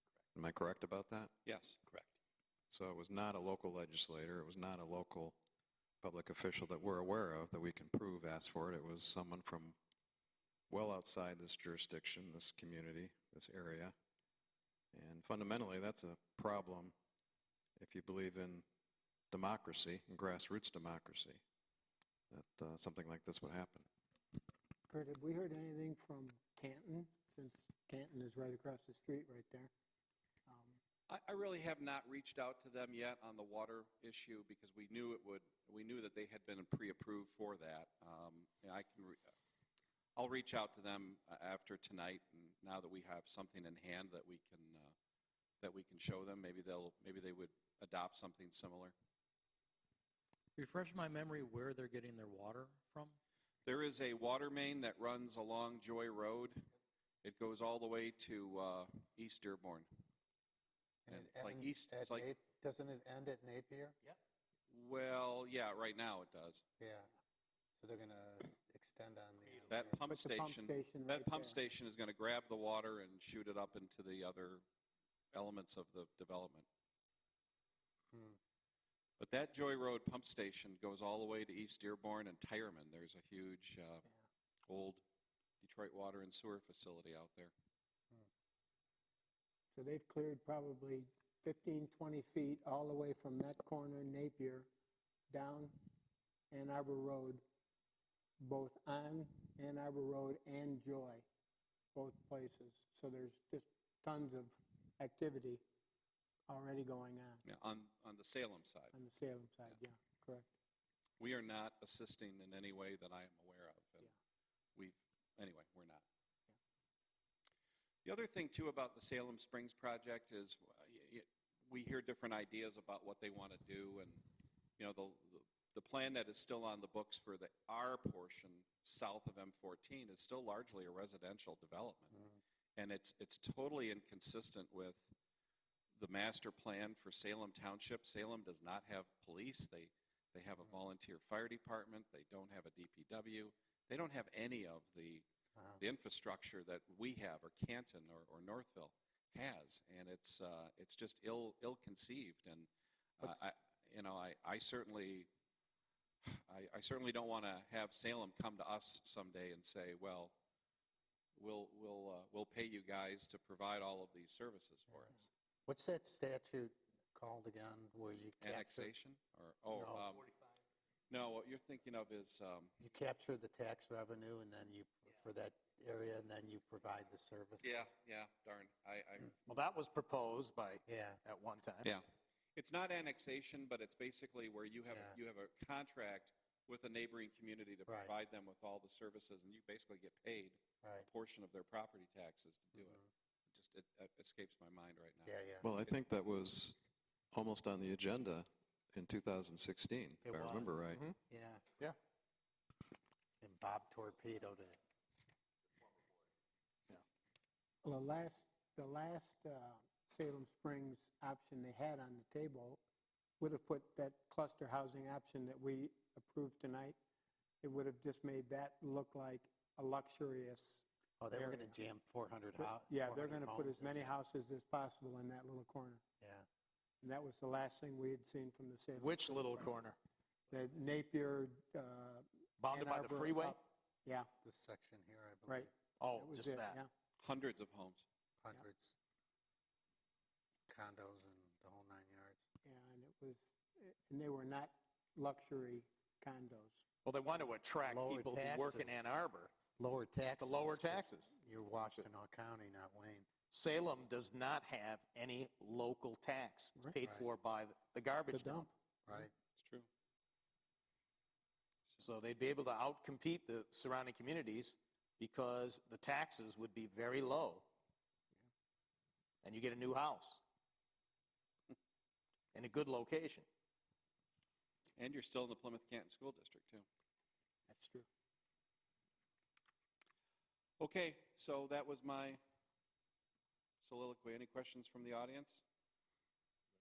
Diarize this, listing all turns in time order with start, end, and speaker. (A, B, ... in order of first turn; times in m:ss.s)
0:00.4-0:01.3 A
0:01.4-0:01.9 B
0:02.7-0:05.4 A
0:06.0-0:09.8 A
0:10.7-0:14.0 A
0:14.9-0:16.9 A
0:17.8-0:18.6 A
0:19.3-0:21.4 A
0:22.3-0:23.9 A
0:24.9-0:29.7 C
0:30.5-0:30.8 C
0:31.1-0:39.2 B
0:40.2-0:44.9 B
0:45.6-0:48.9 B
0:50.6-0:53.2 D
0:53.7-0:56.7 B
0:57.2-0:59.9 B
1:01.1-1:04.0 E
1:01.1-1:02.3 B
1:04.7-1:06.6 B
1:06.8-1:07.1 E
1:07.8-1:10.0 E
1:09.7-1:14.6 B
1:10.1-1:11.6 C
1:15.3-1:16.7 B
1:18.1-1:18.4 E
1:19.2-1:24.0 B
1:24.7-1:25.0 B
1:25.6-1:27.5 B
1:29.7-1:34.7 C
1:35.3-1:35.8 C
1:36.5-1:37.4 C
1:38.4-1:41.3 C
1:41.9-1:45.6 C
1:46.5-1:47.4 C
1:47.4-1:48.9 B
1:48.9-1:50.5 C
1:51.2-1:54.1 B
1:54.8-1:56.0 B
1:58.0-2:04.2 B
2:04.8-2:12.1 B
2:12.1-2:12.4 E
2:12.8-2:15.1 B
2:16.0-2:25.2 B
2:25.6-2:25.8 E
2:25.8-2:32.7 B
2:33.2-2:35.3 B
2:36.2-2:40.3 B
2:41.4-2:45.3 B
2:45.7-2:48.9 E
2:48.4-2:50.3 B
2:49.7-2:50.1 E
2:51.1-2:52.7 B
2:52.8-2:57.8 E
2:57.6-2:59.4 B
2:59.5-3:01.9 F
3:00.9-3:01.2 E
3:02.6-3:13.0 B
3:04.9-3:05.2 E
3:07.9-3:08.1 E
3:10.8-3:11.1 E
3:12.8-3:13.1 E
3:13.5-3:15.9 B
3:15.3-3:15.7 E
3:15.6-3:16.8 A
3:17.3-3:21.0 A
3:20.2-3:21.7 E
3:23.4-3:24.8 E
3:27.8-3:32.8 C
3:33.4-3:37.0 C
3:37.6-3:41.7 C
3:41.2-3:44.2 E
3:42.6-3:46.0 C
3:46.2-3:46.5 E
3:47.0-3:49.7 C
3:49.0-3:50.0 F
3:50.5-3:54.3 C
3:52.6-3:53.6 F
3:54.4-3:55.7 E
3:55.5-3:56.9 C
3:56.0-3:56.8 F
3:57.2-3:58.1 B
3:58.4-3:59.0 E
4:00.7-4:02.4 E
4:02.6-4:06.8 C
4:07.0-4:09.5 F
4:07.8-4:09.1 E
4:09.8-4:13.3 E
4:10.4-4:11.3 F
4:13.5-4:18.7 F
4:17.0-4:17.3 E
4:18.3-4:18.7 C
4:19.1-4:19.3 E
4:19.6-4:19.9 B
4:22.0-4:27.7 F
4:29.4-4:30.4 F
4:32.5-4:33.5 F
4:35.0-4:36.9 B
4:37.7-4:38.1 C
4:40.8-4:42.4 B
4:43.8-4:45.6 B